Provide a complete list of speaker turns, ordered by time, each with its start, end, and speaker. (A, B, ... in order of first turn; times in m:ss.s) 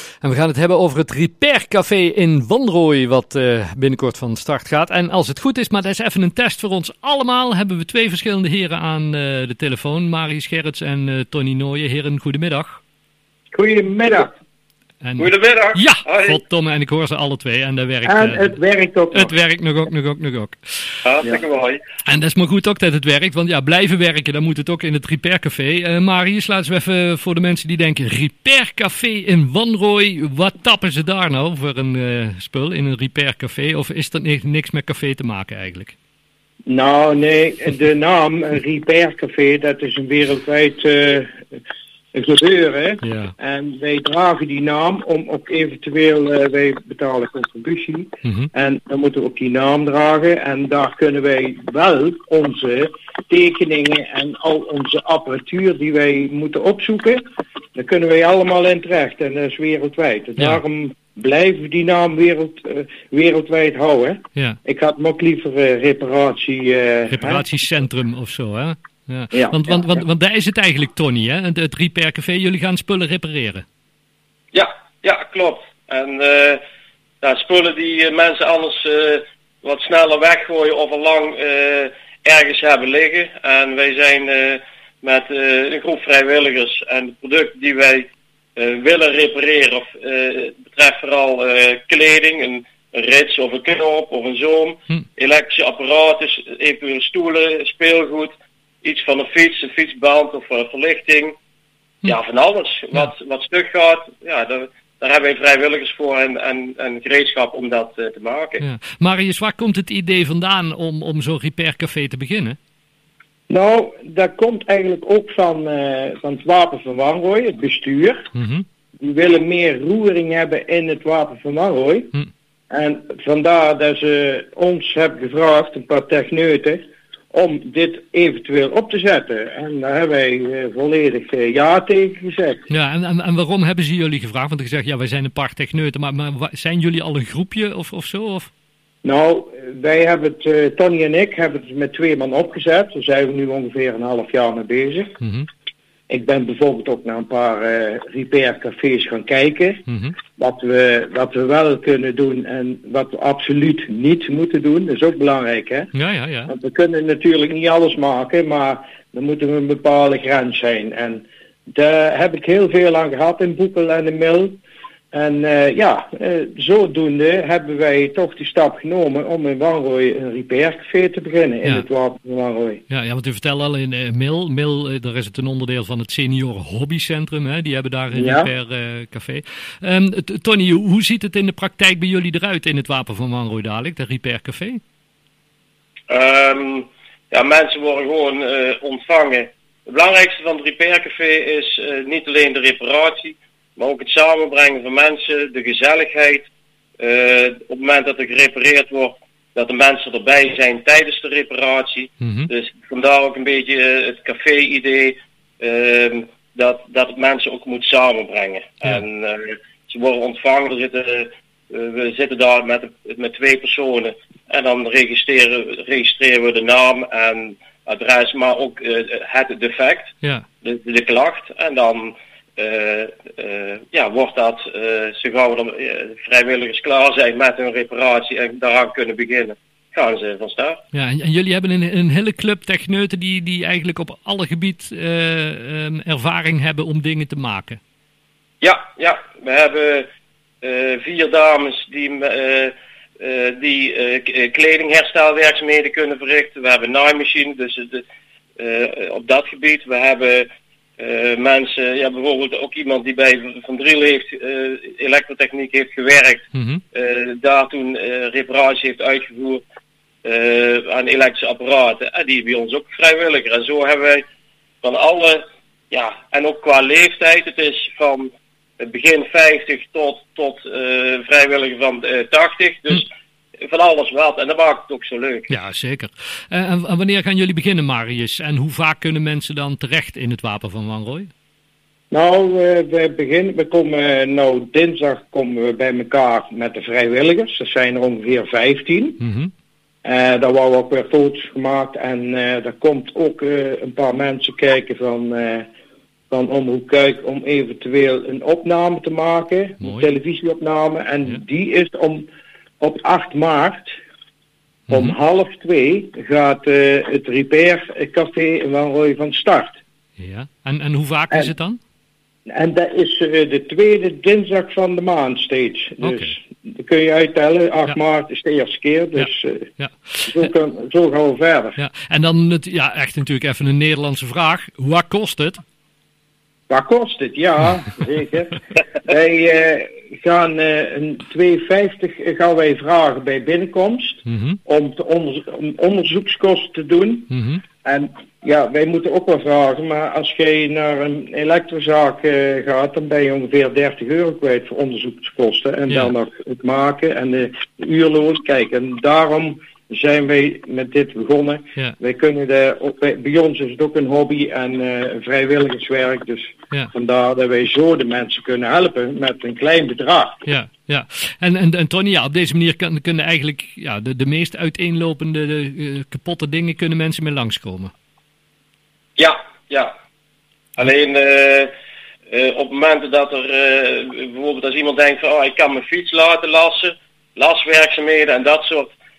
0:00.2-0:12.8 A
0:13.5-0:14.3 B
0:15.0-0:18.6 A
0:15.2-0:16.3 C
0:18.0-0:19.3 B
0:19.1-0:21.0 A
0:21.1-0:21.8 C
0:22.0-0:35.9 A
0:36.6-0:41.4 B
0:42.1-0:57.2 B
0:43.0-0:43.3 A
0:48.2-0:48.5 A
0:57.7-1:07.5 B
1:07.1-1:13.6 A
1:09.3-1:09.9 B
1:14.5-1:16.6 C
1:17.2-1:28.0 C
1:28.6-1:38.3 C
1:38.8-1:41.3 C
1:42.1-1:48.6 C
1:48.6-1:52.6 A
1:53.5-1:58.2 B
1:58.3-1:58.6 A
1:59.0-2:02.1 B
2:02.7-2:12.6 B
2:12.7-2:18.5 A
2:19.0-2:25.1 B
2:25.2-2:25.5 A
2:26.1-2:29.8 B
2:29.9-2:30.2 A
2:30.4-2:35.9 B
2:35.9-2:36.5 A
2:36.5-2:44.6 B
2:45.1-2:52.8 B
2:52.9-3:04.8 A
2:58.1-2:58.5 B
3:06.1-3:16.5 C
3:17.0-3:40.1 C
3:22.2-3:22.5 A
3:40.6-3:50.8 C
3:50.9-3:57.8 A
3:58.6-4:00.0 C
4:00.6-4:08.0 C
4:08.6-4:10.4 C
4:11.0-4:19.6 C
4:16.5-4:16.8 A
4:20.2-4:24.2 C
4:24.8-4:33.0 C
4:33.6-4:35.5 C
4:35.5-4:41.3 A
4:42.1-4:49.2 B
4:49.2-4:49.5 A
4:50.0-4:55.7 B
4:56.3-5:02.3 B
4:59.8-5:00.1 A
5:02.8-5:04.0 B
5:04.9-5:05.2 A
5:04.9-5:09.8 B
5:10.2-5:11.8 A
5:12.5-5:19.7 B
5:16.0-5:16.3 A
5:19.8-5:20.5 A
5:20.2-5:21.8 B
5:21.8-5:25.6 A
5:26.7-5:37.3 B
5:34.2-5:34.6 A
5:37.3-5:37.6 A
5:37.8-6:00.4 B
5:45.9-5:46.1 A
6:00.4-6:07.9 A
6:09.2-6:09.9 C
6:10.8-6:11.7 C
6:12.3-6:18.9 C